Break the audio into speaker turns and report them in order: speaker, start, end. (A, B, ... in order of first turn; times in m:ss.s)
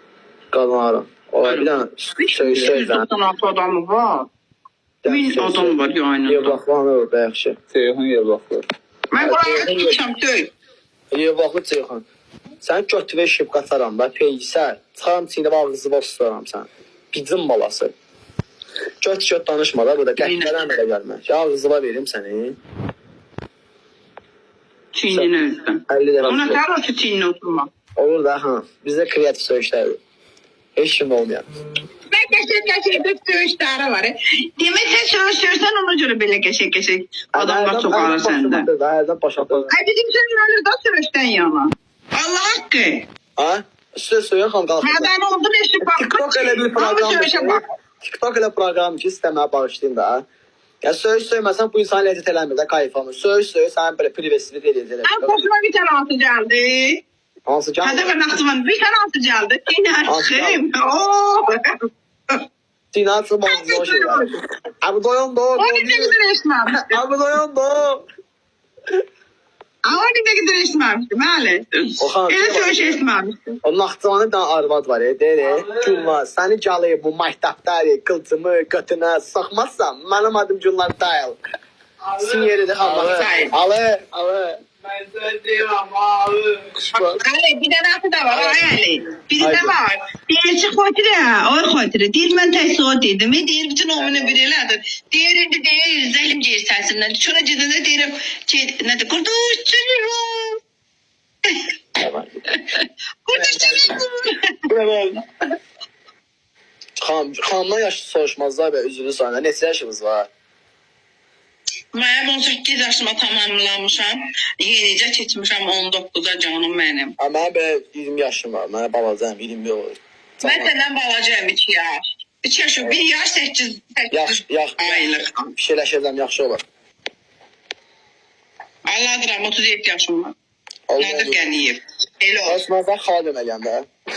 0:00.5-0:03.0 A
0:01.4-0:04.3 B
0:05.0-0:07.6 A
0:05.1-0:06.6 B
0:07.7-0:08.6 C
0:09.1-0:10.5 B
0:09.2-0:10.0 A
0:11.1-0:12.0 A
0:12.6-0:17.9 A
0:19.0-0:22.6 A
0:20.2-0:20.5 B
0:24.9-0:27.7 B
0:25.9-0:26.6 A
0:28.0-0:30.0 A
0:30.8-0:31.4 A
0:32.1-0:38.7 B
0:37.3-0:39.7 A
0:39.7-0:43.0 B
0:43.4-0:45.1 A
0:44.8-0:47.6 B
0:45.8-0:50.2 A
0:50.8-0:55.4 A
0:55.0-0:57.0 B
0:57.5-0:58.1 A
0:57.8-1:01.6 B
1:00.0-1:00.6 A
1:02.9-1:04.3 A
1:03.4-1:04.3 B
1:04.8-1:06.1 A
1:05.6-1:07.0 B
1:06.7-1:08.0 A
1:09.8-1:13.4 B
1:12.0-1:13.0 A
1:13.6-1:21.4 A
1:15.4-1:16.0 C
1:22.1-1:23.5 C
1:22.2-1:24.0 A
1:23.1-1:23.5 B
1:24.1-1:27.1 C
1:26.9-1:40.6 B
1:29.4-1:29.7 A
1:41.4-1:41.7 B
1:42.0-1:42.4 A
1:42.5-1:44.6 B
1:43.3-1:44.0 A
1:44.7-1:45.2 A
1:47.0-1:50.3 A
1:51.9-1:57.1 B
1:57.2-2:00.7 A
2:00.4-2:05.5 B
2:04.1-2:06.6 A
2:08.9-2:10.3 B
2:10.9-2:11.4 A
2:11.0-2:12.6 B
2:12.4-2:13.9 A